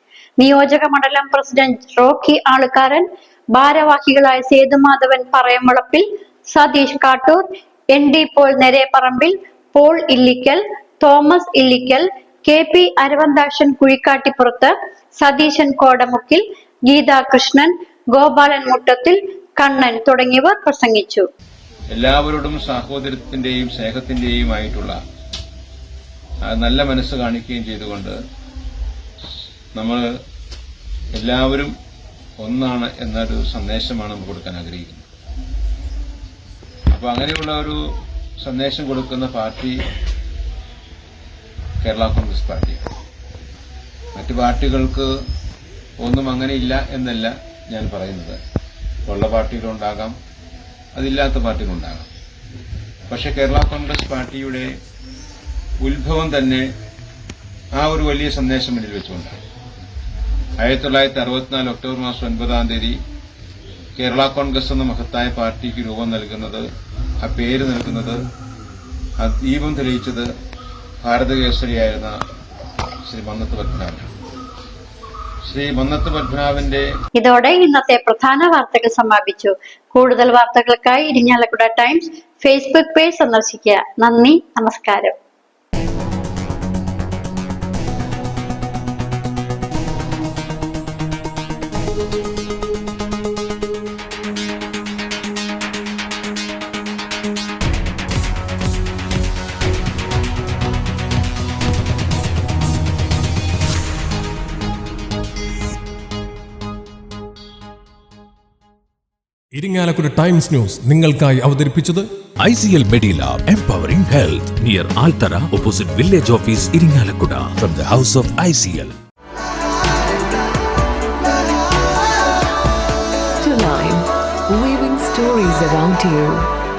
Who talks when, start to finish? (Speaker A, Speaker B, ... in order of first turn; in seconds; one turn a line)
Speaker A: 0.4-21.3
Speaker B: 21.9-25.0
Speaker B: 26.4-28.2
Speaker B: 29.7-30.1
Speaker B: 31.1-31.7
Speaker B: 32.4-35.0
Speaker B: 36.9-37.8
Speaker B: 38.4-39.8
Speaker B: 41.8-42.8
Speaker B: 44.1-45.1
Speaker B: 46.0-48.4
Speaker B: 49.0-50.1
Speaker B: 50.9-52.1
Speaker B: 53.1-54.7
Speaker B: 55.8-56.6
Speaker B: 57.7-59.3
Speaker B: 60.6-63.0
Speaker B: 64.0-66.7
Speaker B: 67.2-68.2
Speaker B: 69.2-70.3
Speaker B: 71.0-72.2
Speaker B: 73.1-74.1
Speaker B: 75.4-76.9
Speaker A: 77.2-85.1
Speaker C: 109.5-112.1
Speaker D: 112.4-119.0
Speaker E: 123.4-126.5